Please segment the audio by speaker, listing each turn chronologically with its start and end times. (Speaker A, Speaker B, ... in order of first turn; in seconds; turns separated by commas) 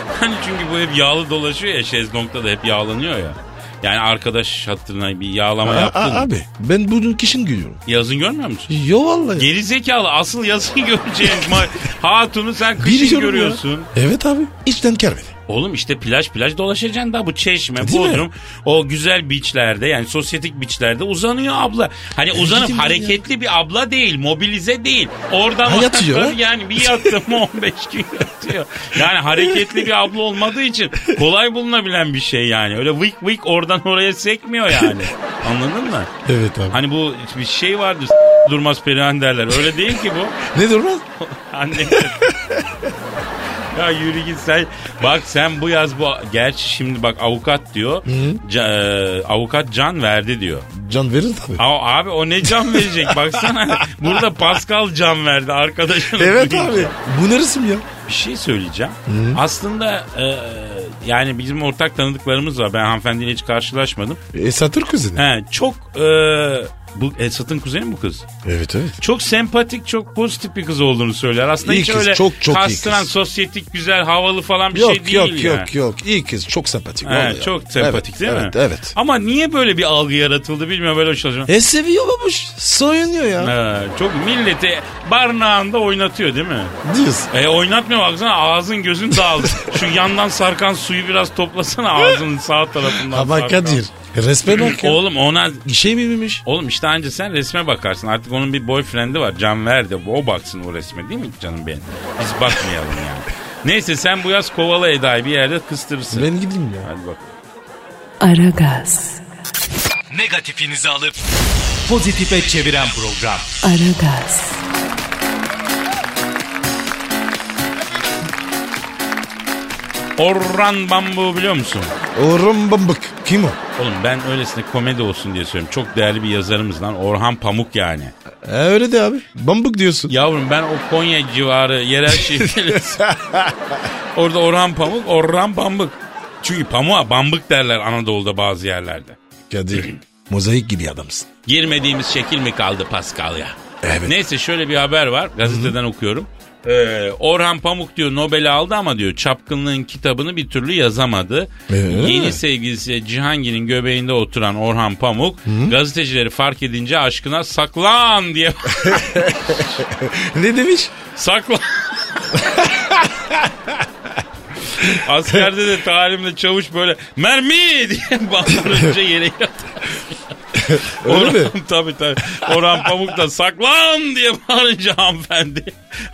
Speaker A: 0.1-6.3, Speaker B: 5.6-7.8, Speaker A: 7.9-8.7, Speaker B: 8.7-9.5, Speaker A: 9.3-13.9, Speaker B: 11.3-11.7, Speaker B: 12.8-15.3, Speaker A: 15.5-36.1, Speaker B: 17.8-18.2, Speaker B: 22.3-23.2, Speaker B: 25.6-27.1, Speaker B: 29.3-29.9, Speaker B: 36.2-36.8, Speaker A: 36.7-40.4, Speaker B: 40.4-41.0, Speaker A: 41.2-42.3, Speaker B: 41.9-42.7, Speaker A: 43.7-50.7, Speaker B: 48.0-48.4, Speaker B: 50.7-51.6, Speaker A: 51.6-56.9, Speaker B: 52.4-54.0, Speaker B: 56.1-57.8, Speaker A: 58.0-64.2, Speaker B: 59.1-59.4, Speaker B: 64.3-65.2, Speaker A: 65.2-68.2, Speaker B: 68.4-69.0, Speaker A: 69.0-75.7, Speaker B: 71.6-73.1, Speaker B: 74.7-78.9, Speaker A: 77.0-81.5, Speaker B: 81.5-83.5, Speaker A: 83.4-86.8, Speaker B: 86.8-87.3, Speaker A: 87.3-93.8, Speaker B: 89.3-89.7, Speaker B: 92.9-95.0, Speaker A: 94.5-95.6, Speaker B: 95.6-96.4, Speaker A: 96.4-106.3, Speaker B: 106.1-106.9, Speaker A: 106.8-107.3, Speaker C: 108.2-109.2, Speaker D: 110.1-111.2, Speaker D: 111.8-113.5, Speaker C: 113.6-114.6, Speaker A: 120.2-121.9, Speaker B: 122.1-123.6, Speaker A: 123.8-128.1, Speaker B: 128.4-130.1, Speaker A: 130.1-133.1, Speaker B: 132.2-133.8, Speaker A: 134.1-139.2, Speaker B: 139.5-141.3, Speaker A: 141.4-159.7, Speaker B: 143.8-144.1, Speaker B: 145.4-145.7, Speaker B: 151.7-152.4, Speaker B: 155.4-155.7, Speaker B: 158.8-160.9, Speaker A: 161.1-162.6, Speaker B: 162.4-163.8, Speaker B: 164.8-165.4, Speaker A: 164.8-170.2, Speaker B: 170.5-171.5, Speaker A: 170.8-175.8